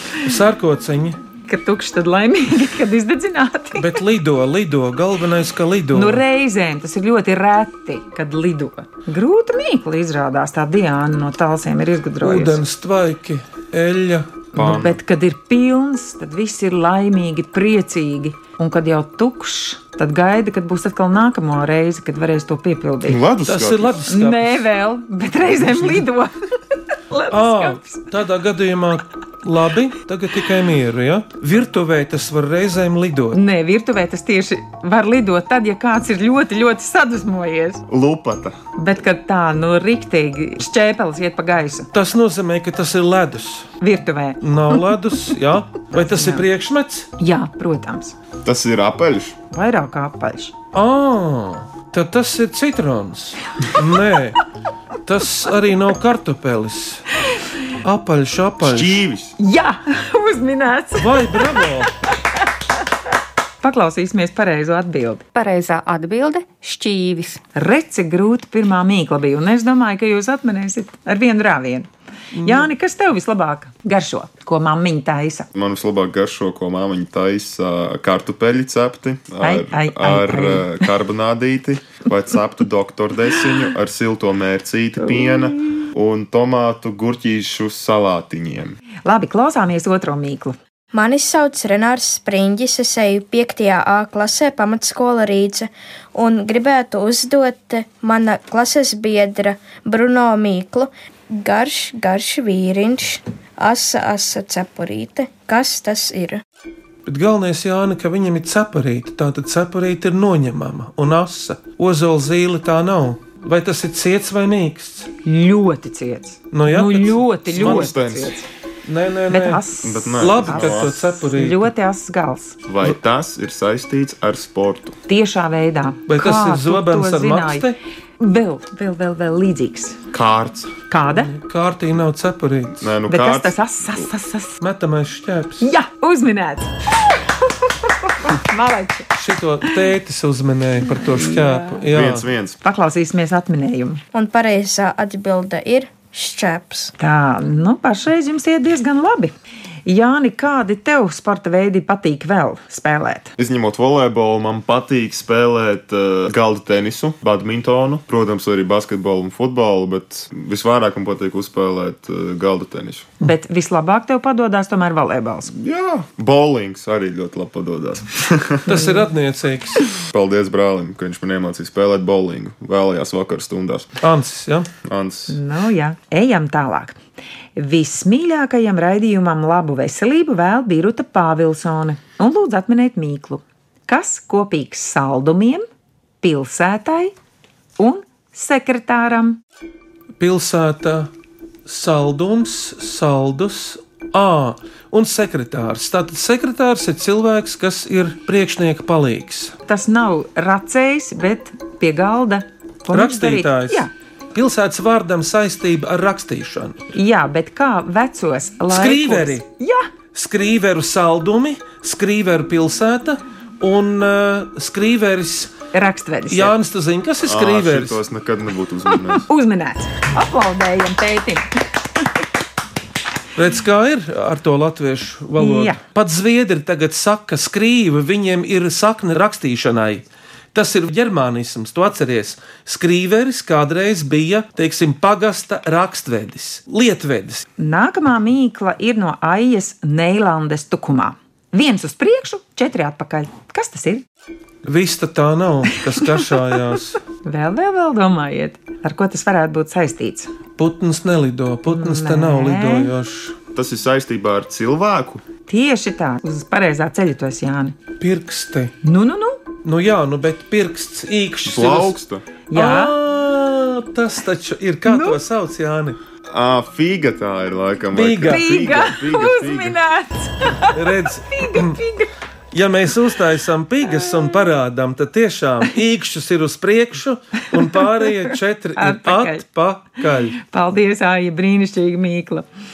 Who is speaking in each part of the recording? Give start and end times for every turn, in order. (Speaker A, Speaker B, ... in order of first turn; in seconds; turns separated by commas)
Speaker A: 0.2-1.2, Speaker B: 1.5-4.0, Speaker A: 3.8-6.2, Speaker B: 5.9-12.6, Speaker A: 12.2-14.4, Speaker C: 14.6-15.0, Speaker B: 14.6-23.2, Speaker C: 23.1-24.1, Speaker A: 23.4-24.6, Speaker B: 24.1-26.3, Speaker A: 25.6-26.0, Speaker B: 27.1-28.0, Speaker A: 27.3-33.4, Speaker B: 33.3-37.8, Speaker C: 37.9-38.6, Speaker B: 38.8-41.9, Speaker A: 41.9-43.7, Speaker B: 43.8-44.8, Speaker A: 44.4-47.1, Speaker B: 46.0-46.5, Speaker B: 47.2-48.2, Speaker C: 48.4-49.4, Speaker B: 49.5-50.5, Speaker A: 50.7-54.4, Speaker A: 55.1-57.0, Speaker A: 57.8-59.0, Speaker C: 58.6-59.4, Speaker B: 59.4-61.7, Speaker A: 61.0-61.9, Speaker B: 63.6-65.2, Speaker D: 65.3-67.4, Speaker B: 67.5-71.9, Speaker A: 72.3-72.7, Speaker B: 72.4-75.5, Speaker C: 75.5-88.8, Speaker B: 79.4-80.9, Speaker B: 85.2-85.8, Speaker B: 89.0-90.6, Speaker E: 90.9-106.4, Speaker A: 107.1-115.1, Speaker B: 115.2-118.4, Speaker A: 116.5-117.9, Speaker C: 117.5-118.4, Speaker A: 118.9-119.6, Speaker B: 119.3-122.6, Speaker C: 119.8-121.1, Speaker A: 120.2-121.7, Speaker C: 122.7-125.0, Speaker B: 125.1-127.7, Speaker A: 126.1-127.8, Speaker B: 128.2-130.0, Speaker C: 130.1-130.8, Speaker B: 130.9-131.3, Speaker A: 131.1-132.9, Speaker C: 132.8-134.1, Speaker B: 133.1-134.6, Speaker A: 134.6-135.7, Speaker B: 135.6-136.7, Speaker B: 137.6-139.1, Speaker A: 139.2-142.3, Speaker B: 141.1-141.8, Speaker C: 141.9-142.6, Speaker B: 142.6-144.0, Speaker E: 144.1-146.9, Speaker B: 147.0-149.3, Speaker B: 149.9-153.3, Speaker C: 153.4-163.1, Speaker B: 163.2-165.5, Speaker C: 165.5-168.8, Speaker A: 168.7-169.8, Speaker B: 168.7-169.0, Speaker C: 170.1-173.9, Speaker A: 174.0-174.7, Speaker C: 174.8-175.4, Speaker B: 175.3-177.0, Speaker B: 177.6-185.7, Speaker B: 186.2-187.1, Speaker B: 187.8-189.4, Speaker A: 190.2-191.1, Speaker A: 191.7-199.6, Speaker B: 199.7-203.9, Speaker A: 202.9-206.8, Speaker B: 206.9-209.9, Speaker A: 208.7-209.4, Speaker A: 210.1-215.5, Speaker B: 215.7-216.5, Speaker A: 216.3-218.0, Speaker C: 217.2-219.3, Speaker B: 219.1-221.5, Speaker A: 223.4-237.5, Speaker B: 225.4-225.8, Speaker B: 237.6-244.0, Speaker A: 244.7-247.0, Speaker B: 247.2-250.3, Speaker A: 250.6-253.4, Speaker B: 251.7-252.9, Speaker C: 253.5-255.2, Speaker B: 255.5-257.8, Speaker A: 258.0-258.7, Speaker B: 258.8-259.4, Speaker A: 259.6-262.0, Speaker C: 261.4-262.2, Speaker B: 262.5-262.9, Speaker A: 262.5-266.0, Speaker B: 264.9-265.2, Speaker C: 266.3-269.8, Speaker A: 267.9-268.4, Speaker B: 268.3-272.1, Speaker A: 270.7-271.8, Speaker A: 272.5-280.4, Speaker B: 277.6-279.4, Speaker B: 280.4-282.5